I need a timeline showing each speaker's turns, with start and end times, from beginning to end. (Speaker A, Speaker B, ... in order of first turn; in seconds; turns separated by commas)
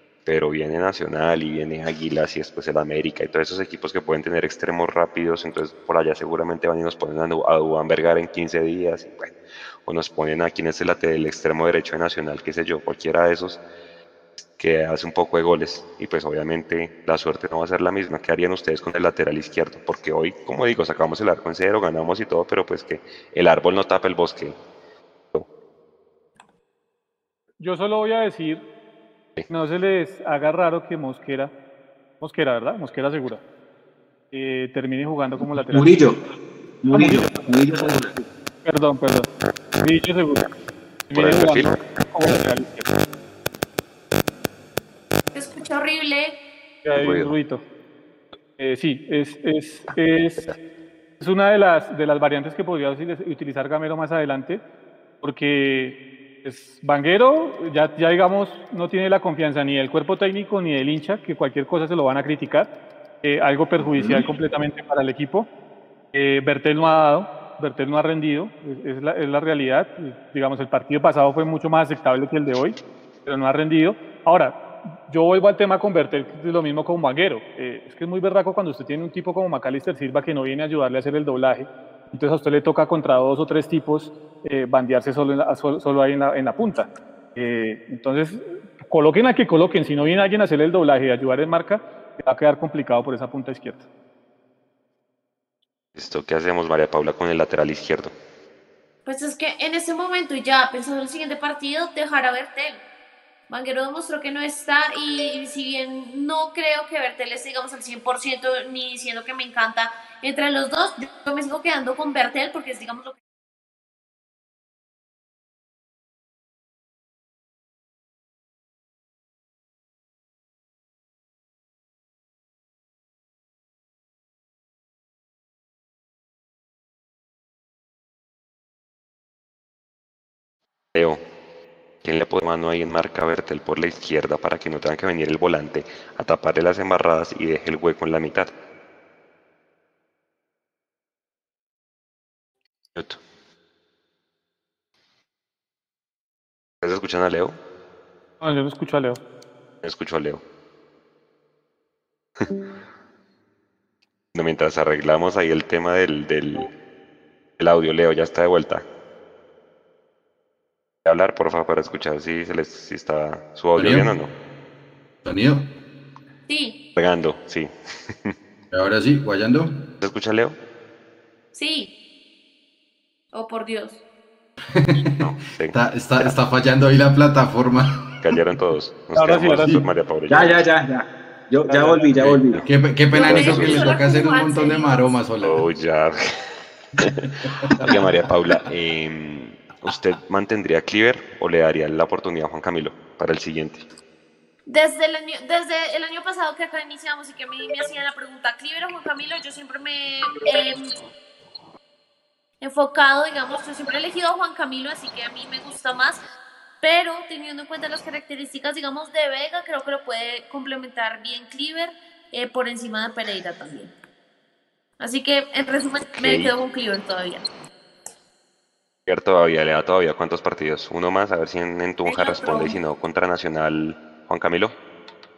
Speaker A: 0.2-9.3, Speaker A: 9.8-13.6, Speaker A: 14.6-24.6, Speaker B: 27.6-28.6, Speaker B: 29.5-31.5, Speaker B: 32.2-33.4, Speaker B: 34.3-36.0, Speaker C: 35.5-36.2, Speaker C: 36.8-38.3, Speaker B: 36.9-37.3, Speaker B: 38.6-39.3, Speaker B: 39.8-40.5, Speaker B: 41.1-42.9, Speaker A: 41.1-41.9, Speaker D: 45.3-46.4, Speaker B: 46.8-47.6, Speaker A: 47.0-47.4, Speaker B: 48.6-50.5, Speaker B: 51.2-54.6, Speaker B: 55.2-62.7, Speaker B: 63.2-65.5, Speaker B: 66.1-93.8, Speaker A: 96.0-98.1, Speaker D: 99.0-102.8, Speaker D: 103.5-113.2, Speaker A: 130.9-131.2, Speaker A: 132.0-138.5, Speaker A: 142.9-143.2, Speaker A: 146.8-147.6, Speaker B: 148.4-149.2, Speaker A: 149.8-150.4, Speaker A: 154.3-156.7, Speaker A: 157.6-158.8, Speaker A: 161.0-164.3, Speaker E: 163.8-164.1, Speaker E: 165.2-165.7, Speaker D: 166.5-166.8, Speaker A: 166.9-168.3, Speaker E: 168.7-169.9, Speaker A: 170.0-170.6, Speaker D: 171.5-171.9, Speaker D: 173.3-174.0, Speaker E: 174.7-178.0, Speaker A: 175.2-176.3, Speaker A: 178.2-180.6, Speaker B: 179.1-179.8, Speaker C: 180.3-182.6, Speaker B: 181.7-182.0, Speaker A: 182.2-182.7, Speaker E: 182.6-185.7, Speaker D: 183.1-185.1, Speaker A: 183.2-184.0, Speaker A: 185.4-186.4, Speaker E: 187.0-188.0, Speaker A: 187.8-193.8, Speaker D: 194.7-200.9, Speaker D: 202.6-206.2, Speaker D: 206.8-213.9, Speaker D: 215.0-217.4, Speaker A: 216.1-216.5, Speaker A: 219.1-224.7, Speaker D: 222.0-222.8